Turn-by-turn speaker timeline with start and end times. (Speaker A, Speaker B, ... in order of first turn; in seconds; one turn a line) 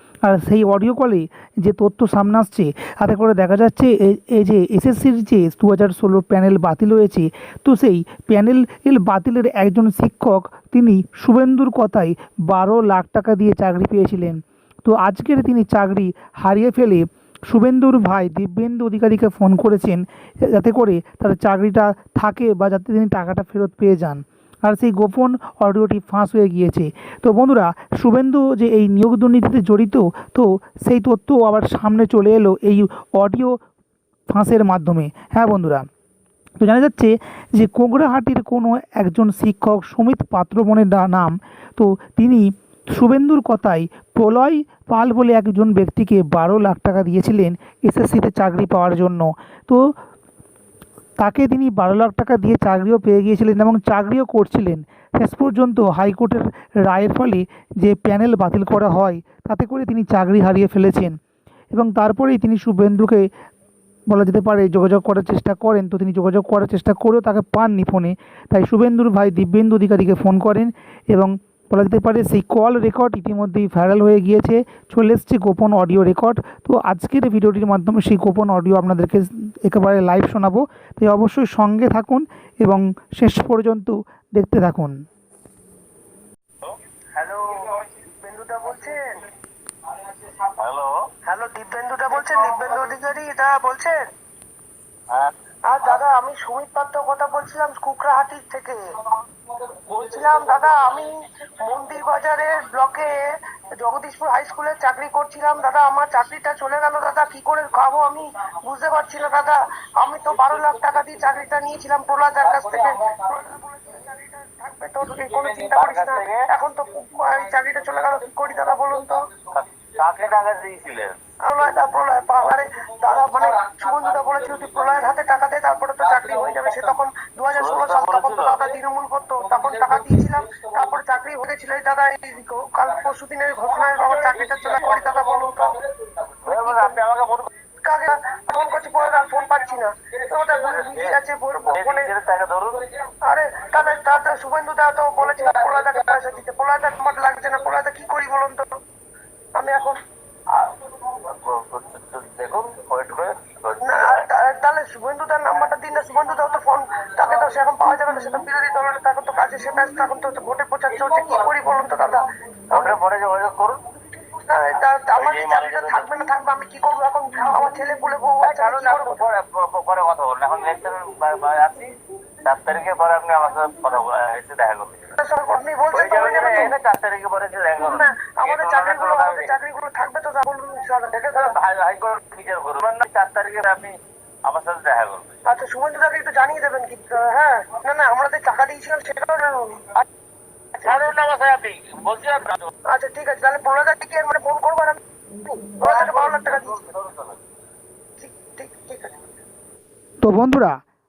Speaker A: 0.2-33.6
Speaker A: 34.3-35.9
Speaker A: 36.6-49.9
Speaker A: 51.2-61.2
Speaker A: 61.7-63.3
Speaker A: 64.1-85.0
Speaker B: 87.2-89.2
Speaker C: 90.3-91.0
Speaker B: 91.2-94.0
Speaker B: 95.7-98.8
Speaker B: 99.9-119.2
Speaker C: 112.6-113.1
Speaker C: 115.3-116.5
Speaker C: 119.4-121.2
Speaker B: 121.4-135.8
Speaker C: 126.1-126.8
Speaker C: 127.6-128.6
Speaker C: 134.2-134.8
Speaker C: 136.1-137.5
Speaker B: 136.4-137.0
Speaker B: 137.8-142.1
Speaker C: 140.6-142.9
Speaker B: 143.2-148.6
Speaker B: 149.5-150.0
Speaker C: 150.5-154.2
Speaker B: 153.8-163.0
Speaker C: 162.7-163.8
Speaker B: 164.4-169.3
Speaker C: 165.1-166.1
Speaker C: 168.4-175.1
Speaker B: 175.2-176.8
Speaker C: 175.9-179.5
Speaker B: 177.8-181.4
Speaker C: 181.1-183.9
Speaker C: 184.4-185.3
Speaker B: 185.4-190.0
Speaker C: 190.8-192.7
Speaker B: 192.9-196.9
Speaker C: 195.8-197.4
Speaker B: 198.2-199.2
Speaker A: 200.2-200.8